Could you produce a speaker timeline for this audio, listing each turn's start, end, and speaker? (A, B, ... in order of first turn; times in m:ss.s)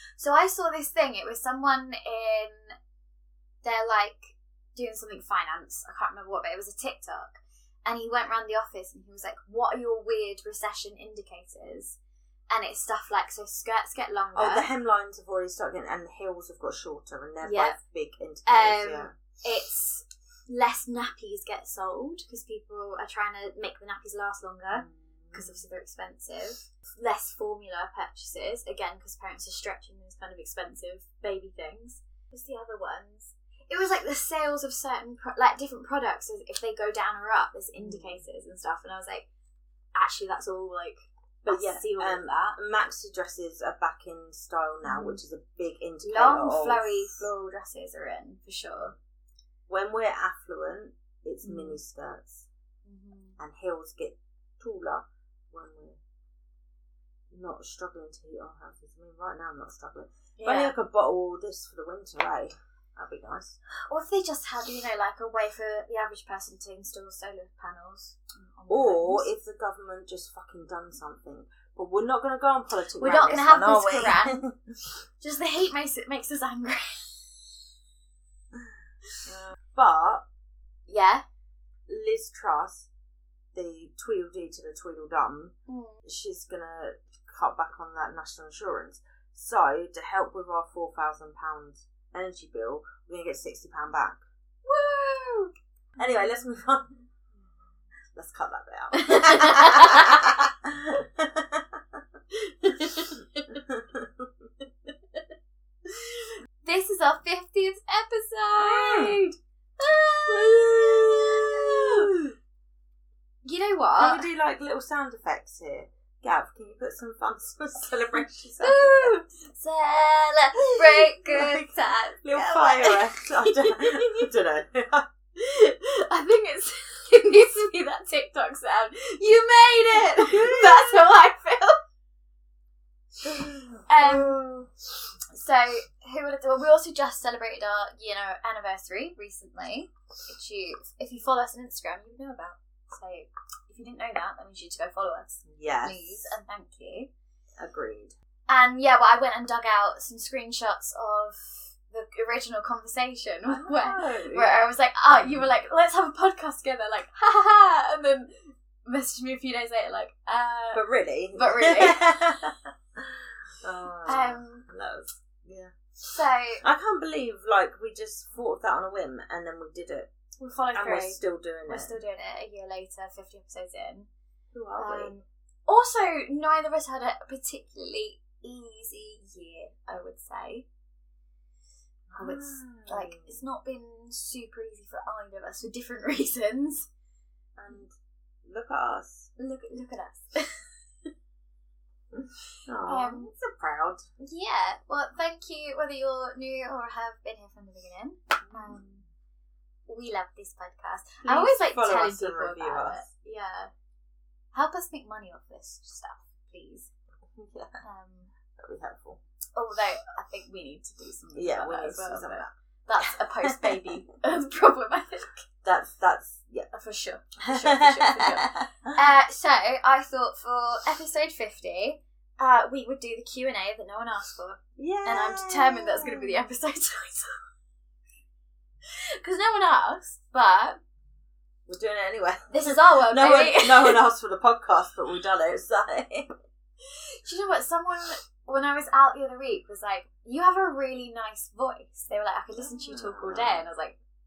0:00.2-0:02.8 A
0:03.6-0:12.0 A
0:12.5-0:14.7 A
0:14.4-0:19.1 B
0:17.4-0:17.8 A
0:18.5-0:39.3 A
0:24.7-0:25.6 B
0:37.7-0:38.2 B
0:40.0-0:42.6 A
0:41.4-0:47.3 B
0:44.8-0:45.2 A
0:46.0-0:48.9 A
0:49.7-0:52.5 B
0:51.4-0:51.8 A
0:52.8-0:53.4 A
0:53.4-0:56.0 B
0:57.3-1:03.6 B
1:00.4-1:00.7 A
1:03.9-1:09.3 A
1:08.7-1:14.6 B
1:13.0-1:14.4 A
1:15.2-1:17.3 A
1:19.2-1:20.2 B
1:20.9-1:21.2 A
1:21.9-1:22.9 B
1:23.5-1:34.2 B
1:25.7-1:26.0 A
1:34.7-1:35.5 A
1:36.0-1:36.9 B
1:38.2-1:42.0 B
1:38.9-1:40.4 A
1:42.5-1:43.6 A
1:43.5-1:44.3 B
1:45.9-1:52.1 A
1:48.6-1:49.2 B
1:50.3-1:52.4 B
1:53.4-1:54.3 A
1:54.0-1:59.2 B
1:58.6-2:04.3 A
2:00.7-2:05.1 B
2:05.4-2:11.8 A
2:10.1-2:11.1 B
2:13.2-2:14.7 B
2:13.9-2:14.4 A
2:15.3-2:27.1 A
2:25.5-2:26.4 B
2:27.6-2:28.1 B
2:28.5-2:40.8 A
2:33.5-2:35.5 B
2:40.7-2:45.8 B
2:41.4-2:42.0 A
2:44.1-2:44.7 A
2:46.0-2:46.6 A
2:46.6-2:50.1 B
2:50.4-2:54.1 A
2:50.7-2:52.0 B
2:54.5-2:55.1 B
2:54.8-3:00.7 A
3:02.1-3:03.4 B
3:02.2-3:06.9 A
3:07.6-3:07.9 B
3:08.4-3:09.3 B
3:09.4-3:10.7 A
3:12.6-3:14.1 B
3:12.9-3:13.3 A
3:14.2-3:19.1 A
3:18.4-3:18.8 B
3:19.9-3:23.7 A
3:21.2-3:23.1 B
3:24.5-3:26.9 A
3:27.3-3:27.8 B
3:27.8-3:28.3 A
3:28.6-3:29.2 B
3:29.6-3:35.4 A
3:31.4-3:32.5 B
3:33.0-3:33.9 B
3:35.6-3:36.7 B
3:36.7-3:47.4 A
3:37.4-3:39.0 B
3:44.8-3:46.6 B
3:49.2-3:50.8 A
3:51.7-3:56.3 B
3:52.5-3:54.0 A
3:56.9-4:04.0 A
4:02.6-4:03.6 B